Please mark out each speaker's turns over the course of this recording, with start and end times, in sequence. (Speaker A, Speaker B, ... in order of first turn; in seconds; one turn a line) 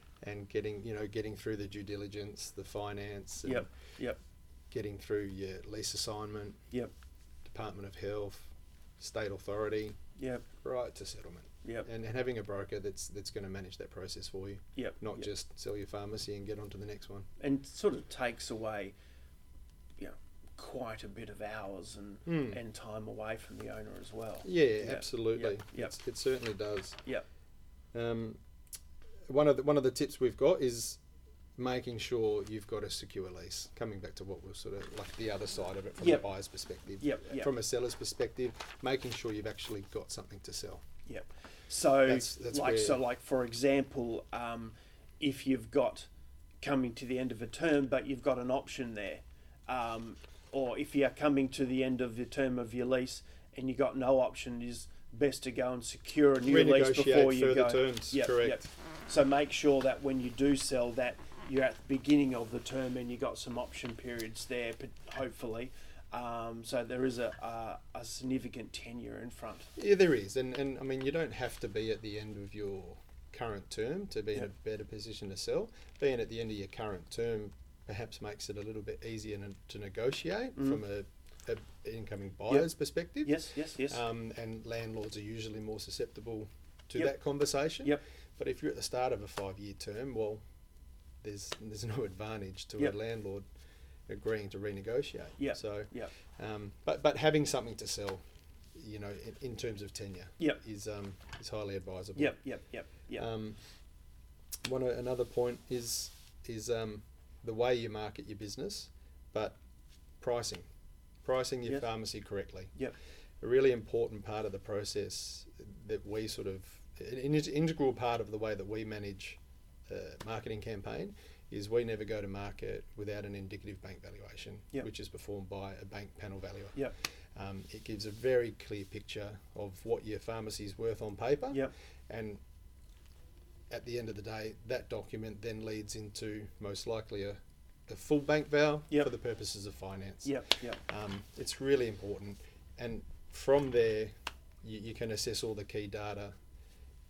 Speaker A: 0.2-3.7
Speaker B: 3.4-4.2
Speaker A: 4.7-6.6
Speaker A: 7.4-10.0
Speaker B: 10.2-10.4
Speaker A: 10.6-17.3
Speaker B: 14.8-15.3
Speaker B: 17.4-18.9
Speaker B: 20.0-25.9
Speaker A: 22.2-22.6
Speaker A: 24.4-27.0
Speaker A: 27.9-28.4
Speaker A: 29.3-31.0
Speaker A: 31.6-40.8
Speaker B: 36.0-36.2
Speaker B: 37.0-37.5
Speaker B: 41.0-46.1
Speaker A: 42.0-43.0
Speaker B: 46.6-69.7
Speaker A: 56.5-58.7
Speaker A: 69.8-90.4
Speaker B: 83.2-84.0
Speaker A: 91.2-93.4
Speaker A: 94.1-98.2
Speaker B: 95.4-96.1
Speaker A: 98.7-102.3
Speaker B: 102.2-103.2
Speaker A: 103.2-103.6
Speaker A: 104.6-109.6
Speaker A: 110.2-110.7
Speaker A: 111.2-112.7
Speaker A: 113.4-126.8
Speaker A: 127.3-132.4
Speaker A: 133.7-146.3
Speaker B: 140.2-140.8